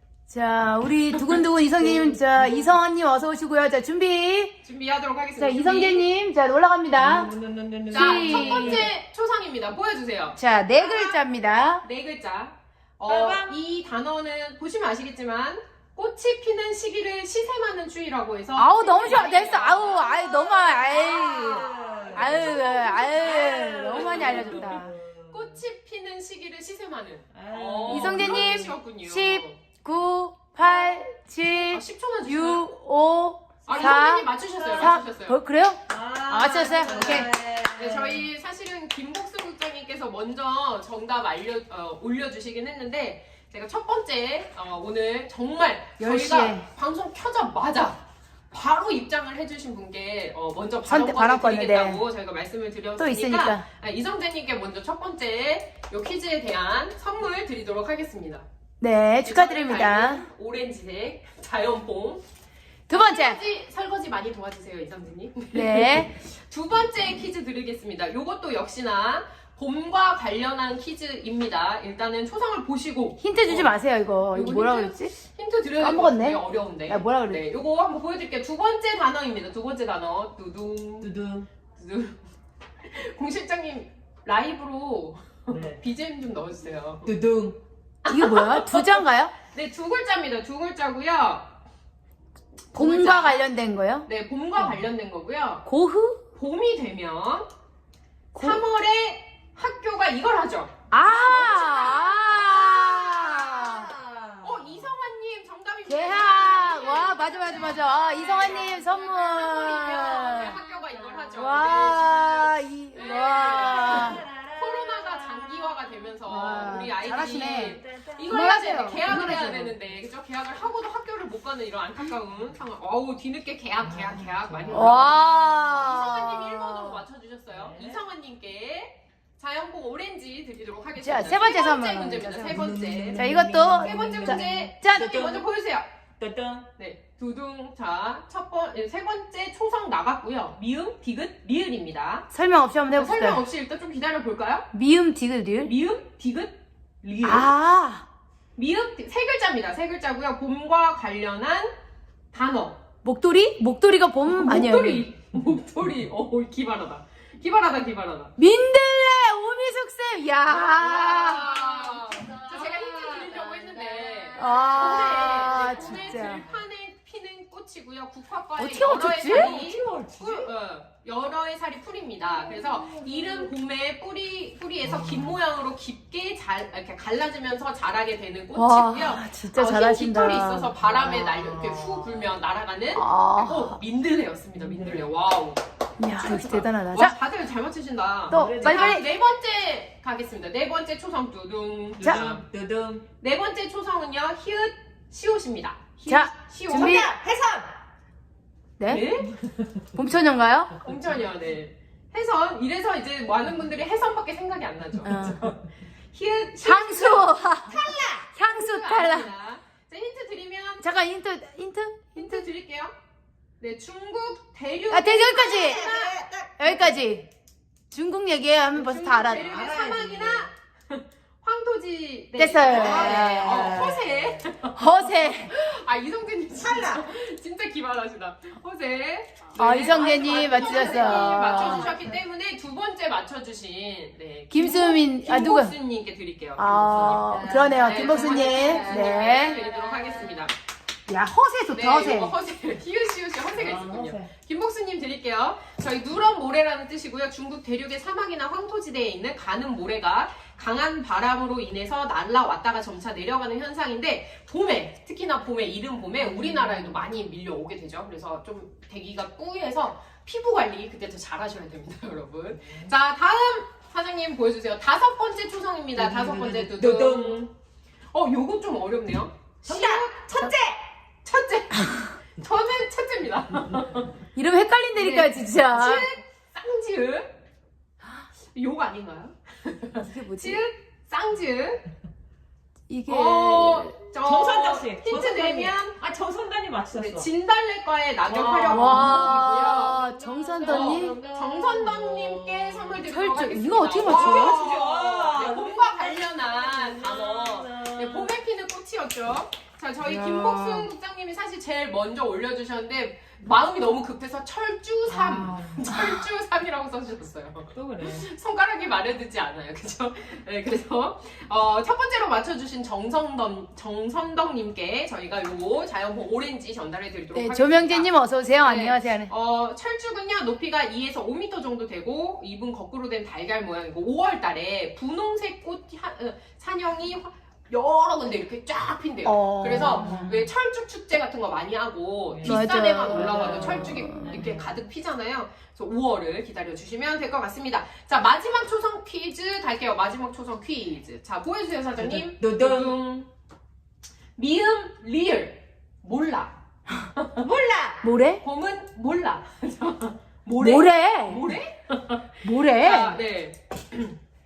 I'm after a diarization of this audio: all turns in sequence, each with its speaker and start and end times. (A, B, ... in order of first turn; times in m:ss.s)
0:00.3-0:04.6 A
0:01.1-0:02.2 B
0:04.6-0:06.0 B
0:05.4-0:07.3 A
0:06.9-0:08.9 C
0:07.9-0:11.2 B
0:07.9-0:08.9 A
0:10.4-0:11.8 A
0:11.8-0:20.3 B
0:13.1-0:13.5 C
0:18.6-0:24.9 A
0:20.9-0:25.6 C
0:21.8-0:29.6 B
0:27.3-0:28.6 C
0:27.9-0:37.3 A
0:31.7-0:32.6 B
0:33.6-0:35.4 B
0:34.6-0:34.9 C
0:35.9-0:38.2 C
0:36.6-0:58.4 B
0:46.0-0:46.6 A
0:50.8-0:52.0 A
0:53.0-0:53.6 A
0:58.8-1:00.2 A
0:59.2-1:02.2 B
1:02.9-1:03.4 A
1:02.9-1:13.8 B
1:05.5-1:06.1 A
1:13.2-1:15.1 A
1:14.3-1:21.1 B
1:15.8-1:17.4 A
1:21.0-1:21.5 C
1:21.8-1:22.2 B
1:22.8-1:27.1 B
1:25.5-1:25.8 C
1:27.0-1:27.6 C
1:28.0-1:31.6 B
1:28.1-1:29.3 A
1:32.7-1:33.5 B
1:32.7-1:34.0 A
1:34.0-1:35.7 B
1:35.6-1:36.2 A
1:36.3-1:37.5 B
1:38.3-1:43.4 B
1:38.3-1:38.6 A
1:40.9-1:43.9 A
1:43.6-1:44.6 C
1:44.4-2:15.9 B
1:45.9-1:50.6 A
1:51.3-1:54.2 A
1:53.4-1:55.9 C
1:56.2-1:59.7 A
1:56.6-1:58.5 C
2:03.8-2:05.2 C
2:04.7-2:07.0 A
2:07.5-2:08.0 C
2:11.0-2:15.1 A
2:12.3-2:15.5 C
2:16.2-2:16.7 C
2:16.8-2:22.3 B
2:22.3-2:23.4 A
2:22.9-2:24.7 B
2:24.7-2:25.7 A
2:25.6-2:27.5 B
2:27.2-2:28.0 A
2:28.6-2:31.7 B
2:32.3-2:32.8 B
2:33.0-2:35.0 A
2:34.3-2:38.3 B
2:38.4-2:41.6 A
2:40.4-3:05.6 B
2:41.6-2:44.2 C
2:44.4-2:46.4 A
2:45.5-2:46.4 C
2:48.6-2:49.6 A
2:49.2-2:50.5 C
2:52.6-2:53.5 C
2:58.5-3:00.8 A
3:00.8-3:02.2 C
3:03.0-3:03.8 A
3:04.6-3:05.0 C
3:06.0-3:07.1 A
3:06.2-3:12.4 B
3:08.3-3:09.0 C
3:08.3-3:09.0 A
3:12.0-3:13.0 C
3:13.2-3:17.0 B
3:16.1-3:17.1 A
3:16.7-3:17.7 C
3:18.8-3:19.0 A
3:18.9-3:19.3 B
3:19.9-3:20.8 A
3:20.8-3:25.6 B
3:25.0-3:25.4 A
3:26.1-3:30.9 B
3:26.6-3:29.3 A
3:27.7-3:28.2 C
3:30.8-3:32.4 A
3:32.1-3:32.9 B
3:33.6-3:36.3 B
3:34.9-3:35.9 A
3:35.6-3:36.6 C
3:36.6-3:37.3 A
3:37.9-3:39.5 A
3:38.7-4:00.5 B
3:39.3-3:40.5 C
3:42.4-3:44.0 A
3:42.7-3:44.0 C
3:44.8-3:45.5 A
3:46.6-3:47.0 C
3:49.5-3:51.9 A
3:50.5-3:52.0 C
3:54.5-3:55.8 A
3:56.6-3:59.6 A
3:56.8-4:00.4 C
4:01.1-4:02.3 A
4:01.7-4:27.5 B
4:03.5-4:04.3 C
4:16.3-4:16.8 C
4:22.6-4:22.9 C
4:25.9-4:27.4 C
4:28.1-4:30.6 B
4:29.6-4:30.8 C
4:31.2-4:34.2 B
4:34.3-4:36.1 A
4:34.9-4:37.3 B
4:38.1-4:41.8 B
4:40.0-4:40.6 A
4:42.9-4:43.9 A
4:43.1-4:46.1 B
4:44.2-4:47.3 C
4:46.9-4:50.0 B
4:48.3-4:53.0 C
4:48.6-4:51.2 A
4:50.6-5:43.3 B
4:53.0-4:54.8 A
4:54.0-4:58.4 C
5:00.0-5:00.9 C
5:05.1-5:06.1 C
5:07.7-5:08.3 C
5:17.3-5:19.3 A
5:29.2-5:30.4 A
5:29.8-5:30.3 C
5:32.3-5:34.7 C
5:32.4-5:34.4 A
5:42.0-5:43.0 C
5:44.4-5:46.6 B
5:47.1-5:47.5 B
5:47.4-5:48.0 C
5:48.0-5:48.4 A
5:48.4-5:54.2 B
5:50.6-5:51.4 A
5:52.4-5:53.2 A